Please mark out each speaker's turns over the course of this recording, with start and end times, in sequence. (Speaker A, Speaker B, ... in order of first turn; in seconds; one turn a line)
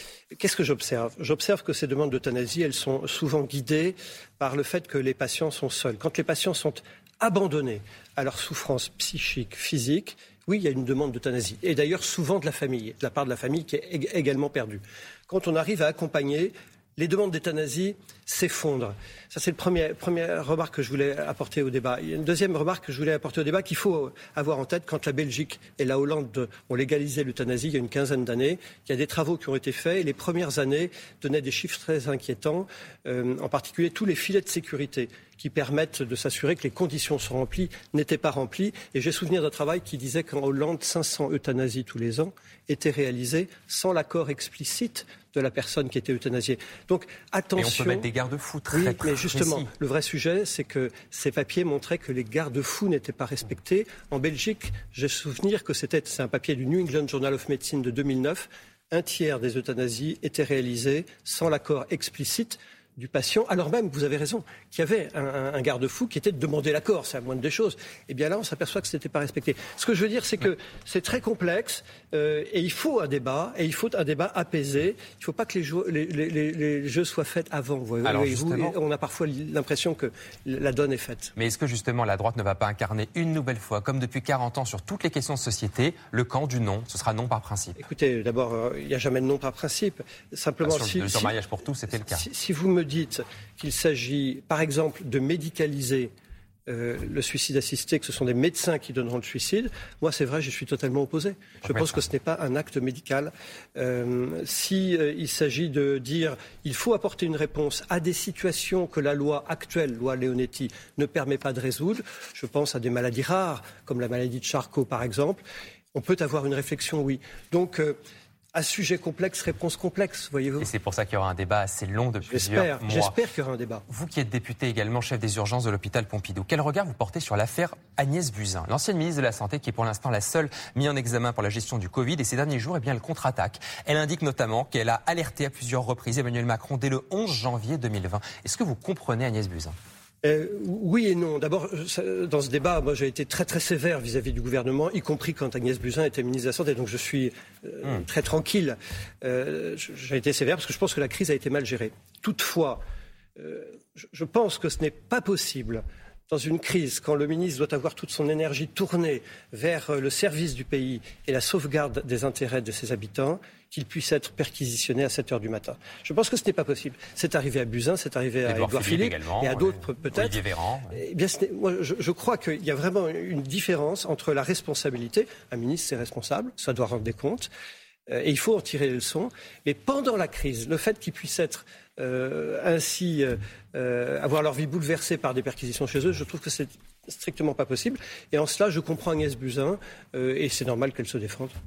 Speaker A: 0.3-48.1
Speaker B: 47.6-49.7
Speaker A: 48.7-81.3
Speaker B: 78.0-78.8
Speaker B: 81.3-87.8
Speaker A: 87.8-91.3
Speaker B: 90.6-92.2
Speaker A: 91.9-96.1
Speaker A: 96.7-115.4
Speaker A: 115.9-118.0
Speaker A: 118.5-120.7
Speaker B: 120.6-123.1
Speaker A: 122.2-123.8
Speaker B: 123.9-139.7
Speaker A: 140.2-152.8
Speaker A: 153.4-177.5
Speaker B: 168.4-171.0
Speaker A: 178.1-191.5